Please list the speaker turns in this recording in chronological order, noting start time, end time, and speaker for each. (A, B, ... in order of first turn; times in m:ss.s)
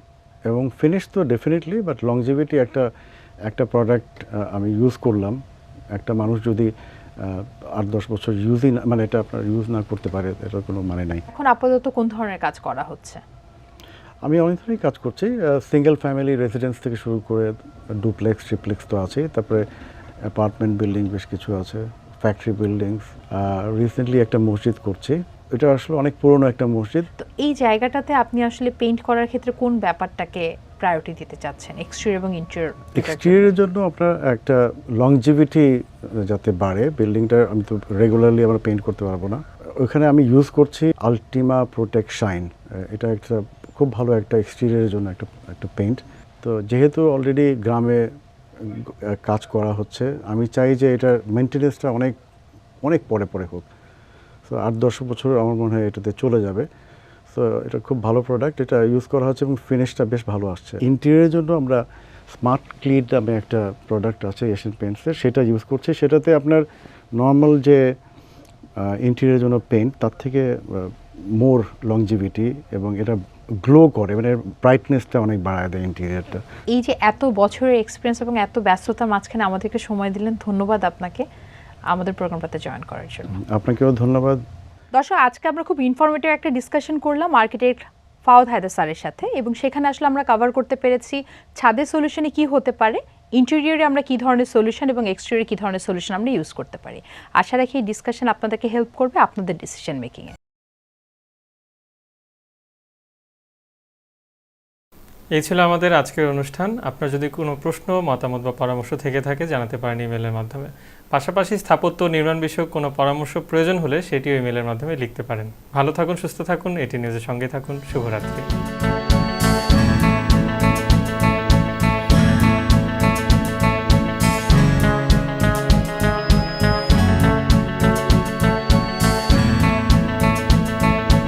0:00.5-0:02.9 A
0:03.4-0:05.4 A
0:05.9-0:11.2 A
0:11.3-0:13.2 B
0:14.2-0:19.6 A
0:20.3-0:27.1 A
0:27.2-0:33.5 B
0:33.0-0:48.0 A
0:48.6-0:52.2 A
0:52.8-0:53.6 A
0:54.4-0:56.6 A
0:57.3-1:01.8 A
1:02.4-1:06.6 A
1:07.2-1:07.8 A
1:08.8-1:16.4 A
1:16.7-1:21.2 B
1:21.9-1:23.3 B
1:23.3-1:24.4 A
1:24.9-1:40.3 B
1:45.3-1:58.4 C